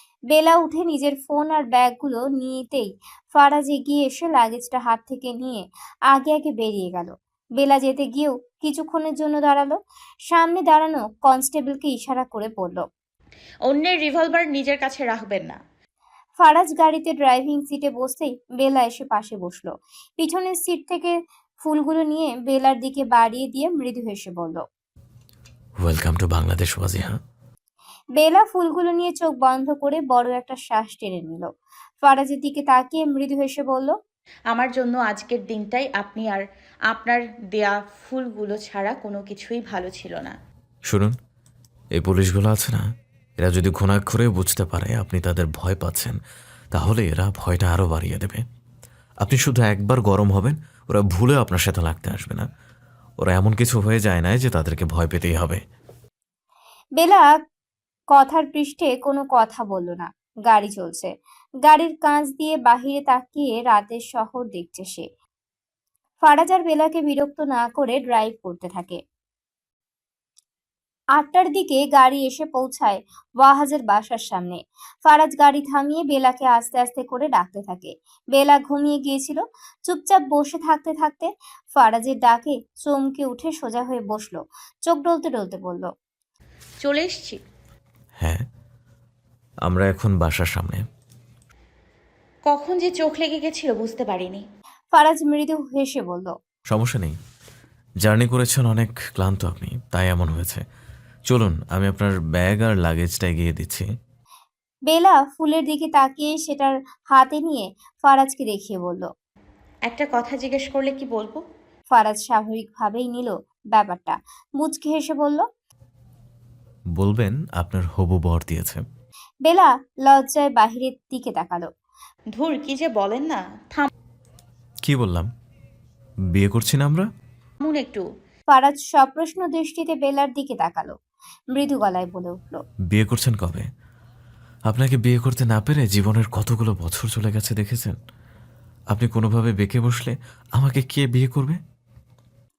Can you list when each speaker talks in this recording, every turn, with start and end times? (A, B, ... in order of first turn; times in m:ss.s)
0:00.3-0:09.8 A
0:10.3-0:12.9 A
0:13.7-0:15.6 B
0:16.4-0:24.6 A
0:25.8-0:27.2 C
0:28.2-0:31.5 A
0:32.0-0:34.0 A
0:34.5-0:40.3 B
0:40.9-0:41.1 C
0:42.0-0:42.8 C
0:43.4-0:46.2 C
0:46.7-0:48.4 C
0:49.2-0:52.4 C
0:53.2-0:55.6 C
0:57.0-0:57.3 A
0:58.1-1:01.1 A
1:01.7-1:05.1 A
1:06.2-1:09.0 A
1:11.2-1:25.9 A
1:26.8-1:27.4 B
1:29.7-1:30.8 C
1:32.5-1:34.4 B
1:34.9-1:36.3 A
1:36.7-1:37.2 C
1:38.0-1:40.6 C
1:41.3-1:43.9 C
1:44.9-1:49.1 A
1:49.9-1:51.4 B
1:51.9-1:55.4 A
1:57.0-1:58.8 C
1:59.5-2:01.7 A
2:02.4-2:03.9 B
2:04.8-2:05.3 C
2:06.4-2:07.1 C
2:07.6-2:08.0 B
2:08.5-2:11.0 A
2:11.5-2:12.6 A
2:12.9-2:13.7 C
2:14.7-2:18.0 C
2:18.9-2:21.6 C